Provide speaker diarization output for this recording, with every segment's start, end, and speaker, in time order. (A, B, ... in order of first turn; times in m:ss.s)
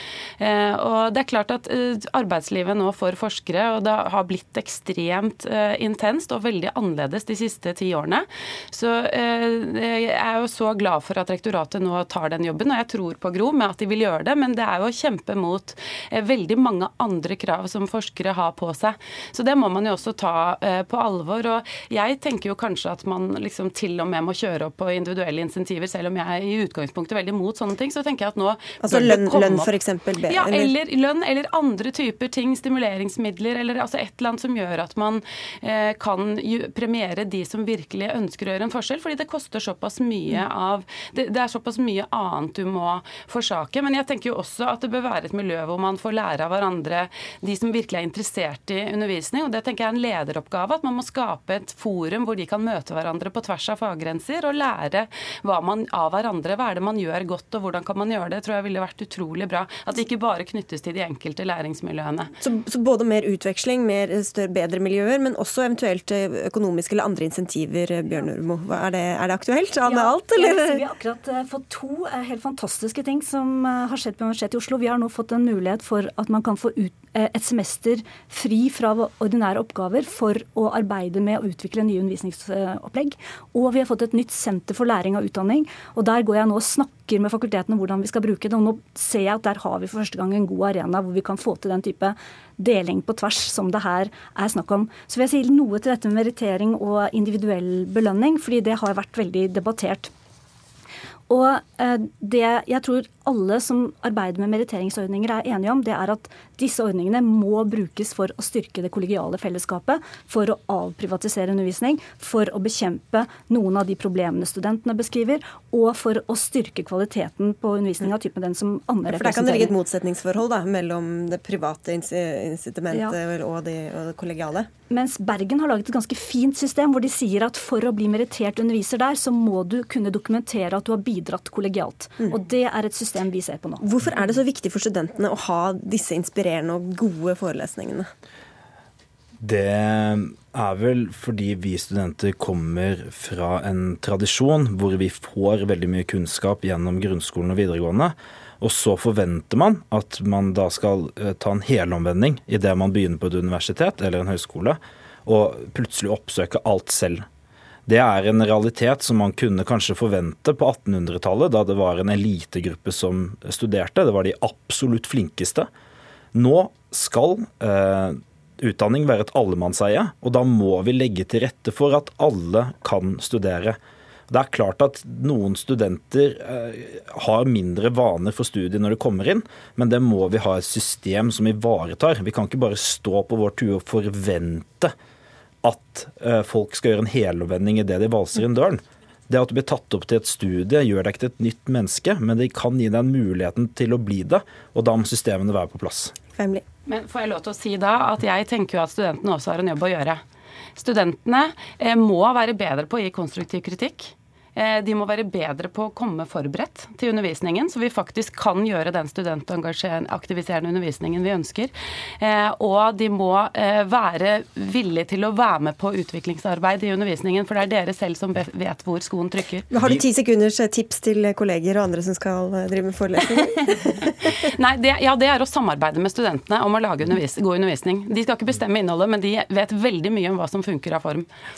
0:00.4-0:29.7 A
0:28.8-0:30.7 B
0:30.3-1:02.3 A
1:02.4-1:10.8 B
1:09.8-1:40.1 C
1:41.3-1:59.7 C
1:59.1-2:04.7 B
2:02.9-2:03.2 C
2:04.9-2:13.9 C
2:13.8-2:18.1 B
2:19.4-2:37.2 D
2:37.9-2:45.7 D
2:46.4-2:53.8 D
2:54.3-3:04.9 D
3:05.6-3:16.1 D
3:16.4-3:16.6 B
3:16.9-3:20.2 A
3:20.8-3:39.7 A
3:39.7-3:44.3 B
3:44.5-3:51.3 A